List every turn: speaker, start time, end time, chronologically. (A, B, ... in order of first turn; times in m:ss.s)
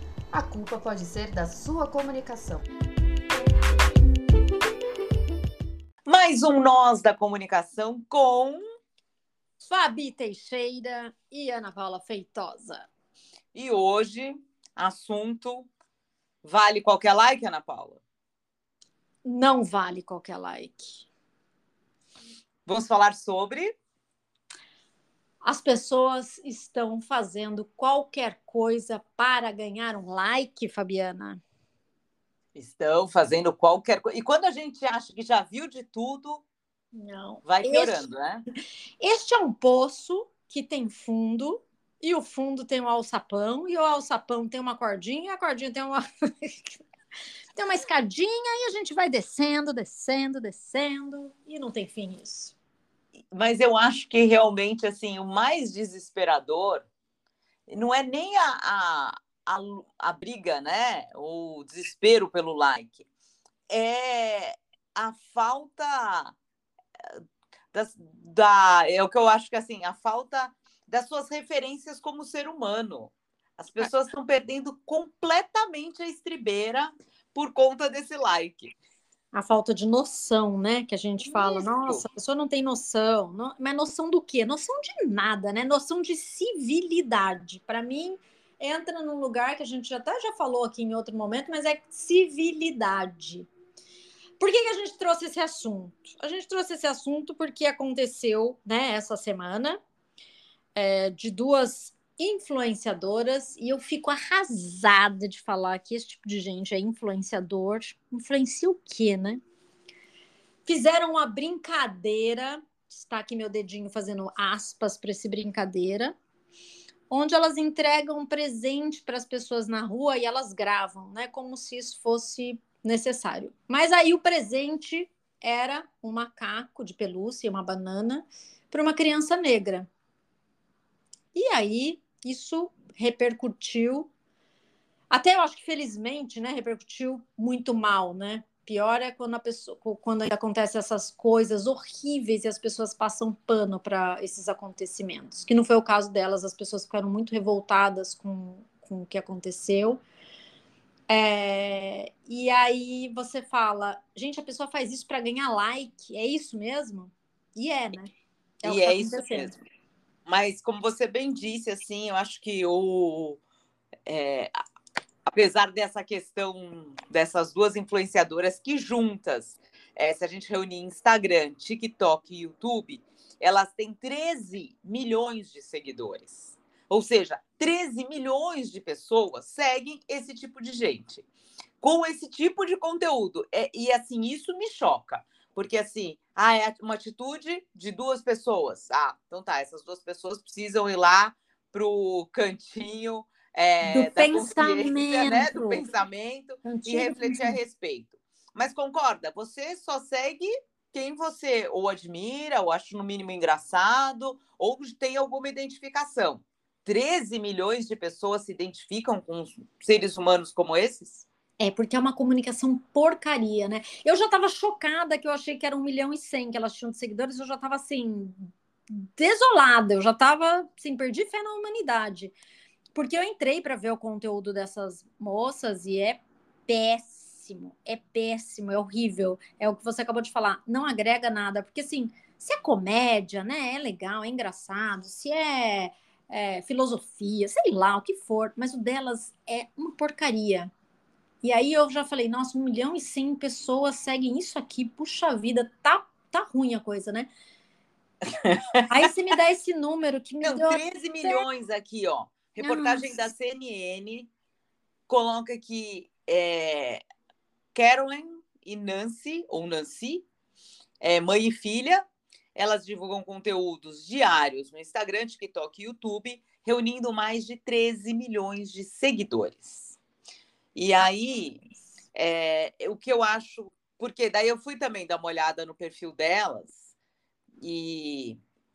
0:00.3-0:02.6 A
0:06.0-0:08.6 B
0:09.6-0:12.8 C
0:13.5-0:15.7 B
0:16.4-0:18.0 B
0:19.2-0:21.0 C
0:22.6-0:23.7 B
0:25.4-0:31.4 C
0:32.5-0:36.4 B
0:37.0-0:38.0 C
0:37.4-0:38.4 B
0:39.0-0:46.8 C
0:47.5-0:52.5 C
0:53.3-0:56.8 B
0:57.7-1:03.1 B
1:03.7-1:06.3 B
1:07.7-1:18.7 B
1:19.3-1:33.5 C
1:21.2-1:22.0 B
1:34.4-1:39.8 C
1:40.8-1:49.4 C
1:50.6-1:56.1 C
1:57.1-2:09.9 C
2:11.3-2:14.1 C
2:15.1-2:30.0 C
2:31.1-2:38.1 C
2:38.6-2:39.6 C
2:38.6-2:39.5 B
2:40.2-2:43.4 B
2:44.0-2:44.5 B
2:45.2-3:01.2 B
3:01.8-3:31.2 B
3:13.8-3:15.8 C
3:16.6-3:17.6 C
3:31.6-3:42.3 C
3:42.9-4:00.7 C
4:01.4-4:07.3 C
4:08.3-4:08.8 B
4:08.9-4:11.4 C
4:10.4-4:14.3 B
4:12.6-4:13.1 C
4:15.1-4:17.0 B
4:17.7-4:20.2 B
4:21.0-4:30.0 B
4:30.7-4:31.6 B
4:32.1-4:36.9 B
4:37.6-4:38.4 B